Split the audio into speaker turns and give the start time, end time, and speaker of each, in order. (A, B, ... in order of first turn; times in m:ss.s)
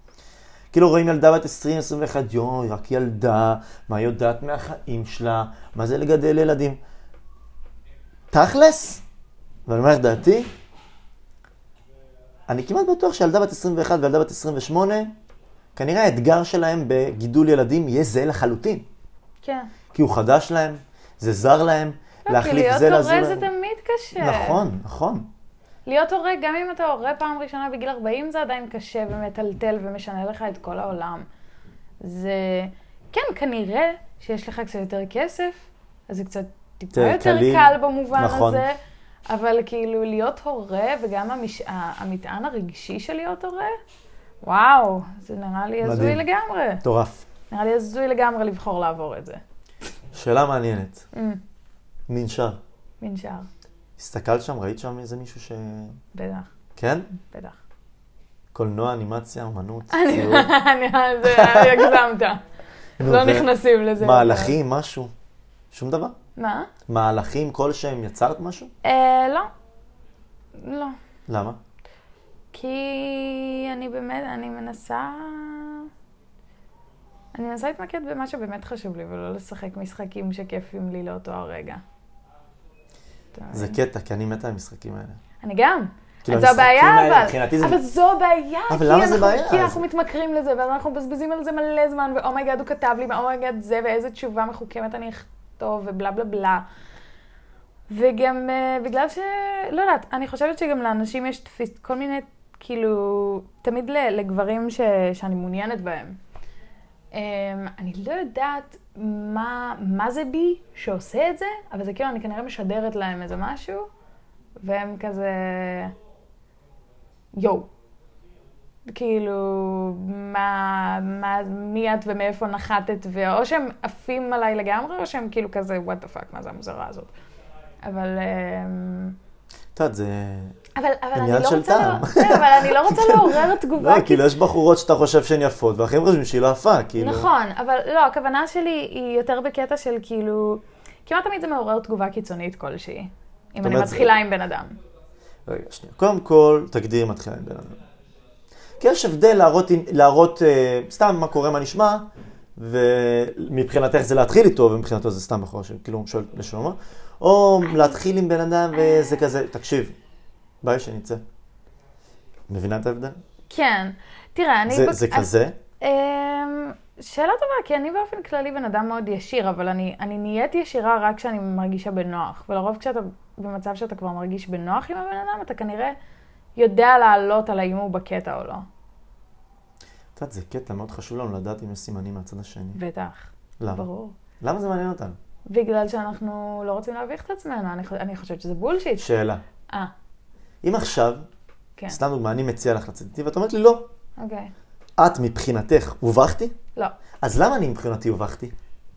0:00.7-0:06.8 A
0:08.3-0:09.0 A
0:09.7-0:10.5 A
0:12.5-0:15.1 A
0:15.8-0:18.9 A
0:19.4-0:19.7 B
0:19.9-0:23.5 A
0:22.3-0:24.6 B
0:24.2-0:25.3 A
0:25.9-0:31.2 B
0:32.0-0:38.7 B
0:36.9-0:38.6 A
0:39.3-0:43.8 B
0:44.4-0:46.8 B
0:45.8-0:46.2 A
0:46.8-0:47.3 A
0:47.5-0:49.4 B
0:50.1-0:51.1 A
0:51.1-0:51.4 B
0:52.1-0:52.6 A
0:53.0-0:53.5 B
0:54.0-0:56.0 A
0:56.1-0:56.5 B
0:56.8-0:57.2 A
0:57.3-0:57.6 B
0:58.5-1:00.5 A
0:59.9-1:02.4 B
1:01.2-1:02.0 A
1:03.0-1:04.6 B
1:03.0-1:05.1 A
1:05.7-1:06.2 A
1:06.4-1:06.7 B
1:06.9-1:08.7 A
1:08.8-1:09.5 B
1:10.6-1:11.0 B
1:11.3-1:11.6 A
1:12.5-1:15.9 B
1:17.4-1:21.8 B
1:23.4-1:23.8 B
1:23.5-1:25.2 A
1:25.4-1:36.7 B
1:26.2-1:27.8 A
1:28.7-1:29.8 A
1:37.9-1:46.2 B
1:47.1-1:53.9 B
1:54.6-1:55.9 B
1:57.3-1:57.7 B
1:58.9-2:07.1 B
2:07.8-2:09.2 B
2:09.8-2:10.6 A
2:10.8-2:14.3 B
2:11.1-2:17.3 A
2:17.0-2:24.8 B
2:23.6-2:24.1 A
2:25.5-2:27.8 A
2:28.8-2:40.0 A
2:37.6-2:38.0 B
2:38.7-2:39.2 B
2:40.6-2:41.2 A
2:42.5-2:43.2 A
2:43.5-2:56.0 B
2:44.7-2:45.6 A
2:56.6-2:58.7 B
3:00.2-3:02.8 A
3:02.8-3:04.2 B
3:03.6-3:03.9 A
3:04.4-3:05.2 A
3:05.5-3:09.0 B
3:09.0-3:09.4 A
3:10.6-3:11.3 A
3:11.9-3:13.8 A
3:14.2-3:14.5 B
3:15.0-3:16.6 A
3:17.2-3:18.5 A